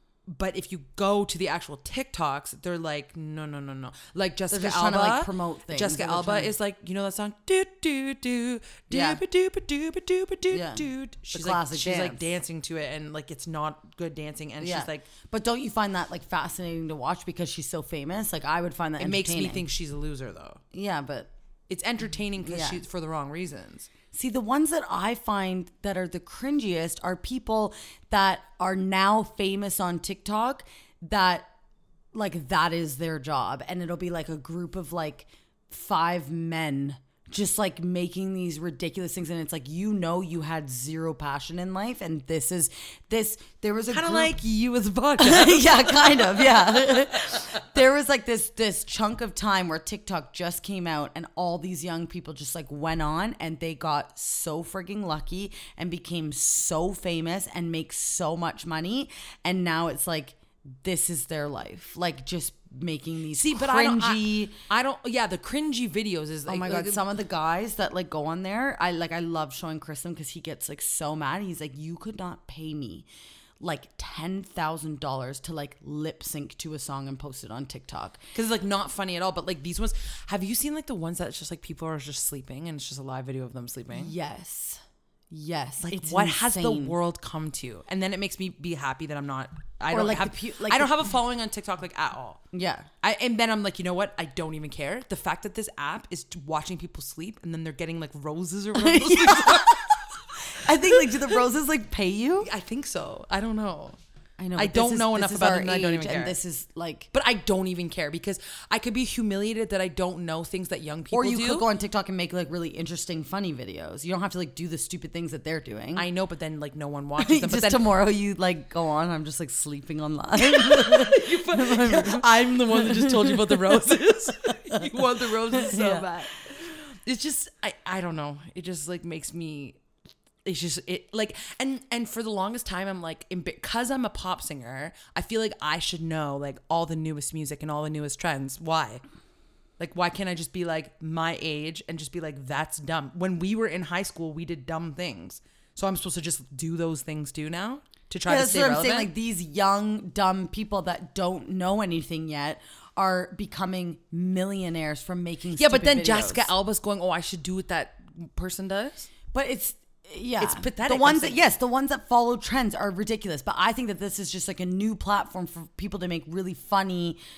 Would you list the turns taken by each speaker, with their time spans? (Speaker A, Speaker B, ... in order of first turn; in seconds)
Speaker A: 0.3-15.1, 19.0-20.6, 21.7-23.9, 43.9-47.3, 63.3-67.0, 78.3-84.1, 85.8-92.4, 93.0-100.0, 100.7-101.4, 102.4-104.0, 104.5-106.3, 107.1-111.7, 115.9-117.9, 120.4-129.8, 130.4-139.0, 139.8-149.1, 155.5-159.1, 160.4-161.4
Speaker B: 4.5-6.5, 8.9-9.2, 10.5-12.2, 14.6-19.6, 20.7-21.3, 22.4-22.8, 24.1-31.5, 32.1-44.3, 45.2-64.5, 66.5-73.1, 73.6-78.2, 83.9-87.0, 89.9-91.0, 92.5-92.9, 98.7-102.5, 104.4-107.1, 111.1-116.0, 117.2-123.8, 124.4-124.9, 125.5-126.3, 148.2-156.5, 159.3-167.2